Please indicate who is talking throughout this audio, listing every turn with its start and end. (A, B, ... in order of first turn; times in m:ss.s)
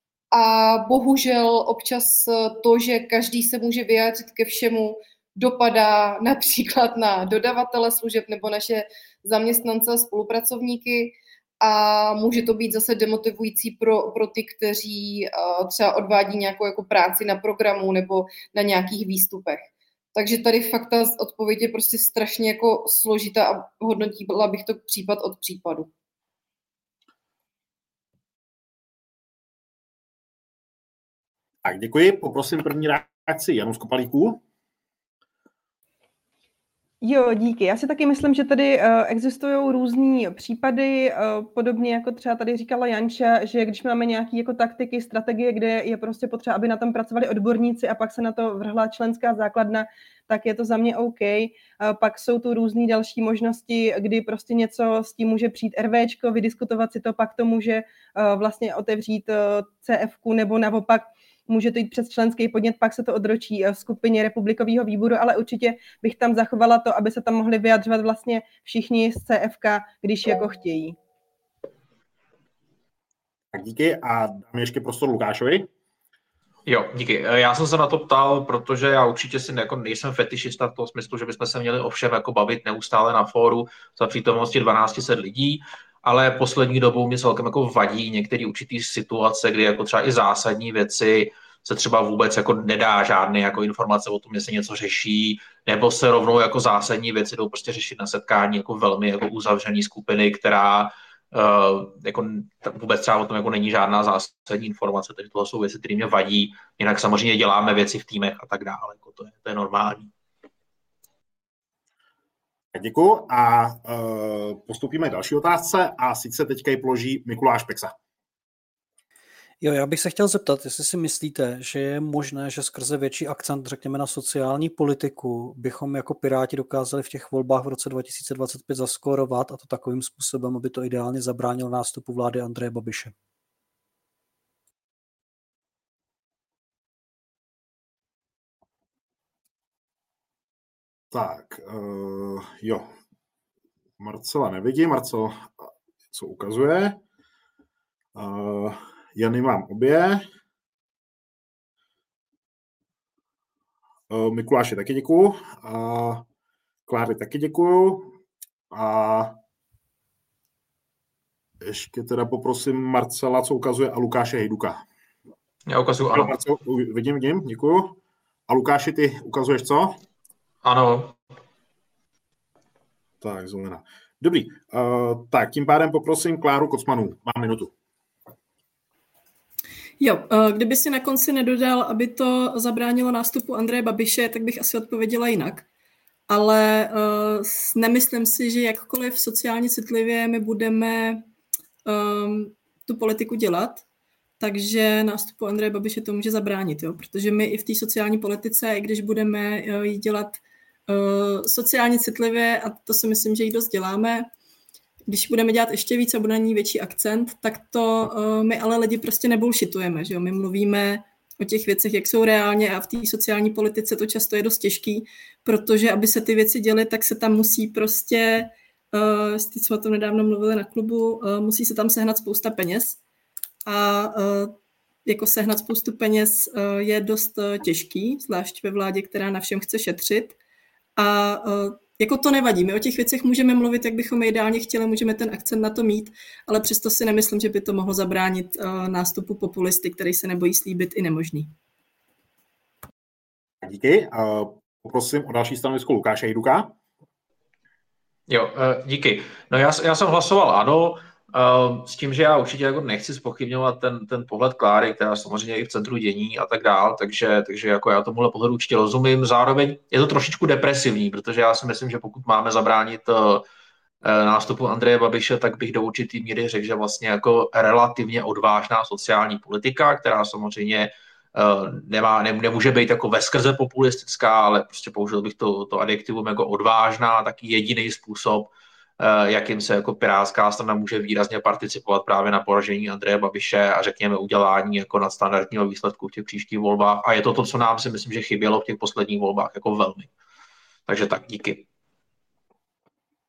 0:00.3-0:25.9 A
0:31.6-0:34.4 B
0:37.0-1:11.0 C
1:13.5-1:15.7 B
1:16.7-1:50.1 D
1:52.7-1:57.9 B
1:59.6-2:13.1 E
2:21.1-2:22.9 B
2:24.0-2:27.0 B
2:28.2-2:30.2 B
2:34.1-2:36.2 B
2:36.9-2:38.2 B
2:38.7-2:39.4 B
2:41.6-2:44.8 B
2:45.7-2:46.3 D
2:46.1-2:50.0 B
2:50.6-2:51.2 D
2:53.2-2:57.7 B
3:00.0-3:05.7 F
3:06.3-3:11.3 F
3:11.9-3:13.8 F
3:14.4-3:24.3 F
3:25.1-3:43.0 F
3:43.6-3:50.4 F
3:51.0-4:01.5 F
4:03.6-4:06.8 B
4:08.3-4:23.4 D
4:24.0-4:50.1 D
4:50.9-4:51.6 D